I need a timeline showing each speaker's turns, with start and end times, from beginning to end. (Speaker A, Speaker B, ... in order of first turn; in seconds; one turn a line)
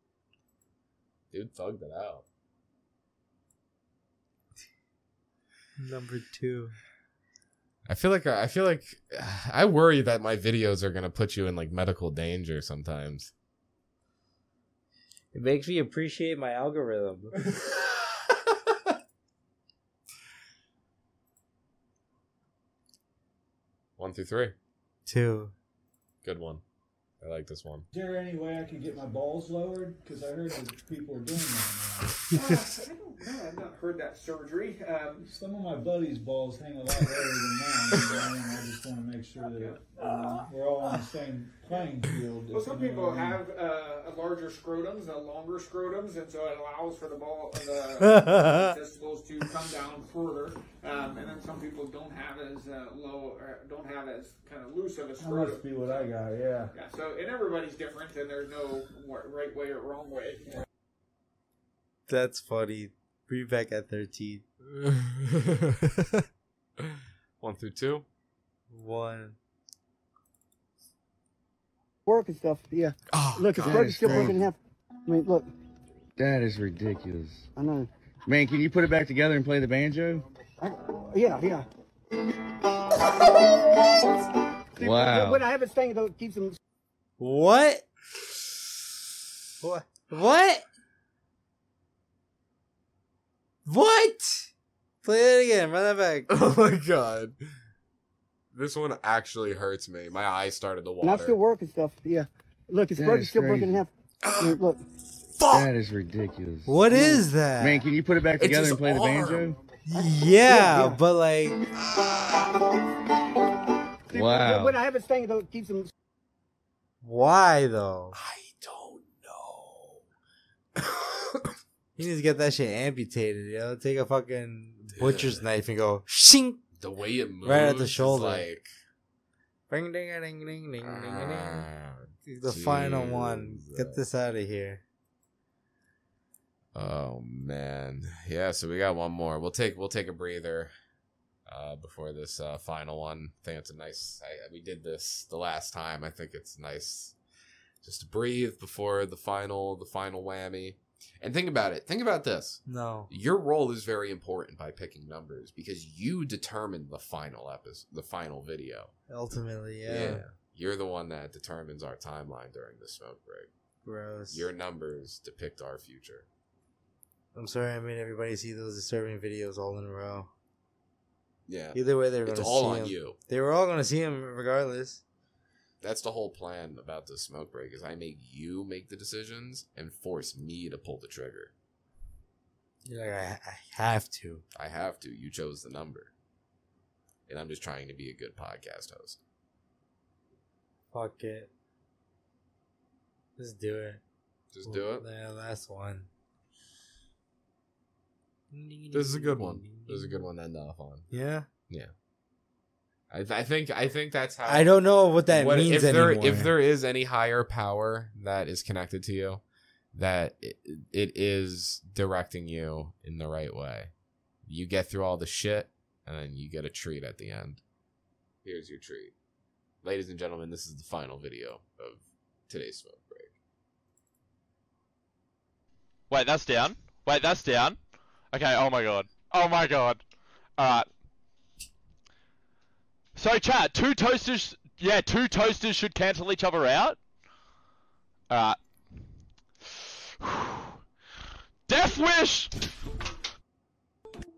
Speaker A: 1.3-2.2
Speaker B: 5.8-6.7
Speaker A: 7.9-13.3
Speaker B: 15.3-17.4
Speaker A: 24.0-24.5
Speaker B: 25.1-25.5
Speaker A: 26.2-26.6
Speaker A: 27.2-27.9
Speaker C: 27.9-32.2
Speaker D: 32.3-35.2
Speaker C: 35.2-43.4
Speaker D: 39.5-40.4
Speaker D: 42.5-56.1
Speaker B: 48.0-48.7
Speaker C: 55.2-56.7
Speaker D: 56.7-60.6
Speaker B: 62.1-64.4
Speaker A: 64.6-66.2
Speaker A: 66.8-68.0
Speaker B: 68.7-69.3
Speaker E: 72.1-75.5
Speaker A: 73.1-74.3
Speaker F: 73.6-74.4
Speaker F: 76.2-77.5
Speaker E: 77.5-77.9
Speaker F: 78.2-80.2
Speaker E: 80.6-81.6
Speaker E: 84.8-86.6
Speaker F: 84.8-85.4
Speaker B: 87.2-87.8
Speaker B: 89.6-90.7
Speaker B: 93.7-94.5
Speaker B: 95.0-96.3
Speaker A: 96.3-97.4
Speaker A: 98.5-101.4
Speaker E: 101.0-104.8
Speaker F: 102.9-103.8
Speaker A: 104.2-104.5
Speaker A: 105.4-105.7
Speaker F: 105.5-109.5
Speaker B: 106.7-107.8
Speaker A: 108.4-109.5
Speaker B: 109.9-111.6
Speaker E: 109.9-111.0
Speaker A: 111.8-112.5
Speaker E: 114.1-115.9
Speaker F: 114.1-114.5
Speaker B: 114.3-114.7
Speaker B: 117.0-118.2
Speaker A: 118.1-120.0
Speaker A: 120.8-121.5
Speaker B: 122.0-126.6
Speaker A: 124.9-125.4
Speaker A: 126.8-128.7
Speaker B: 127.4-128.5
Speaker B: 129.7-131.7
Speaker A: 130.8-134.0
Speaker B: 132.2-134.8
Speaker A: 136.7-140.7
Speaker A: 141.4-147.2
Speaker A: 147.8-158.9
Speaker B: 152.7-153.1
Speaker B: 159.1-160.2
Speaker A: 159.8-163.5
Speaker B: 163.8-164.5
Speaker A: 164.3-166.3
Speaker B: 167.3-170.3
Speaker A: 171.5-173.2
Speaker B: 171.7-175.0
Speaker A: 175.8-181.5
Speaker B: 182.8-184.4
Speaker A: 184.5-186.1
Speaker A: 187.3-189.2
Speaker B: 190.9-191.5
Speaker B: 193.4-194.0
Speaker A: 194.5-195.1
Speaker B: 194.6-196.1
Speaker B: 198.5-200.3
Speaker A: 198.9-201.1
Speaker B: 201.1-201.5
Speaker A: 203.1-204.7
Speaker B: 204.4-206.5
Speaker A: 205.3-209.4
Speaker A: 209.9-213.9
Speaker A: 214.4-217.6
Speaker A: 218.4-219.1
Speaker A: 219.8-223.3
Speaker G: 226.1-227.8
Speaker G: 228.3-230.0
Speaker G: 230.6-230.9
Speaker G: 233.2-237.0
Speaker G: 238.3-238.6
Speaker G: 241.7-242.5